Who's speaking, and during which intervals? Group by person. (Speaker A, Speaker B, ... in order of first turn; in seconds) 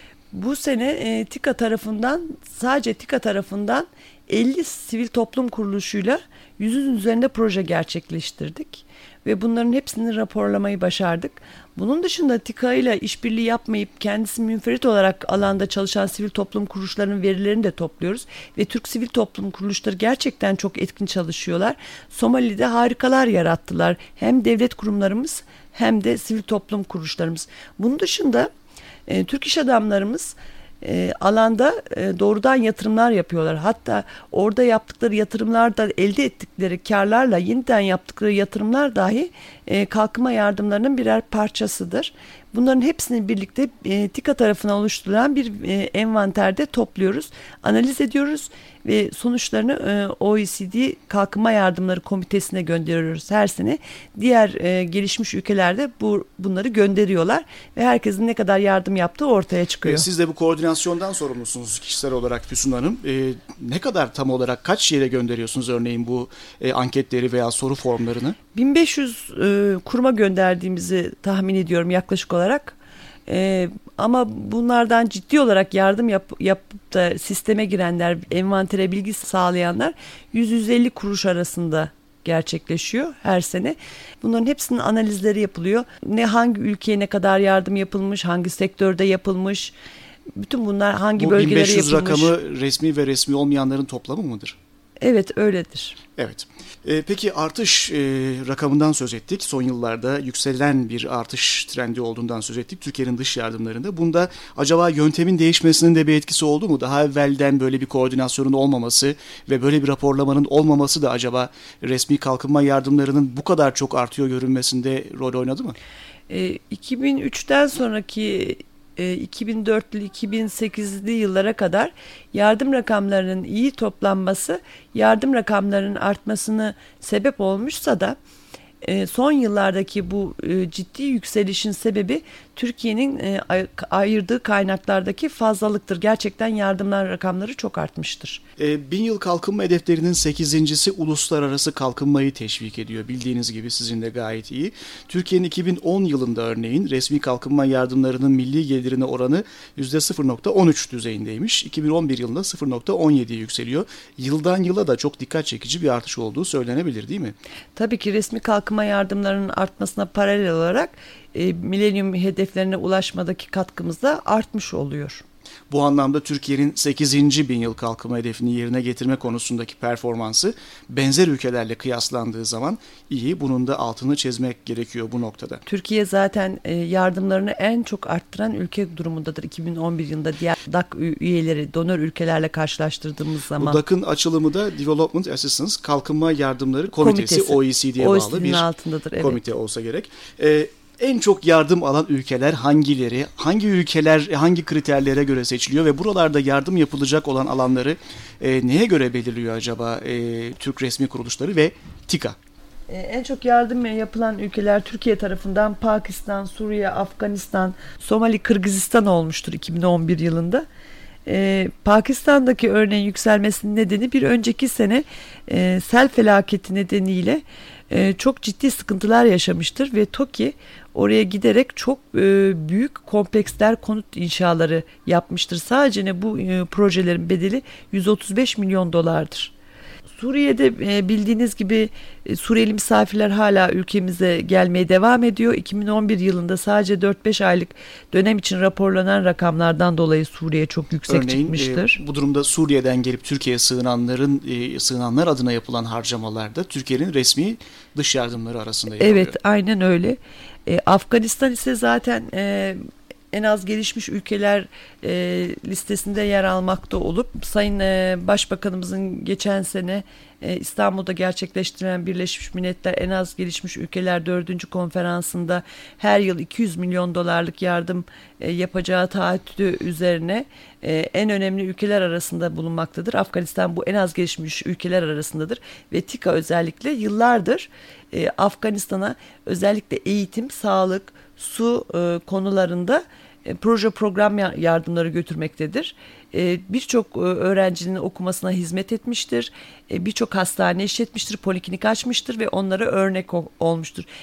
Speaker A: 0.3-28.5, 29.1-60.1, 68.5-89.8, 90.4-92.3, 95.0-96.0, 116.3-128.2, 128.8-138.4, 157.8-165.2, 175.7-183.8, 186.9-189.4, 202.9-210.7, 211.2-229.5, 230.2-242.0, 249.0-252.8, 253.3-294.1
Speaker B: 59.8-68.4, 91.2-94.6, 96.2-115.8, 138.6-157.3, 165.7-175.6, 183.6-188.7, 189.2-202.4, 241.1-249.4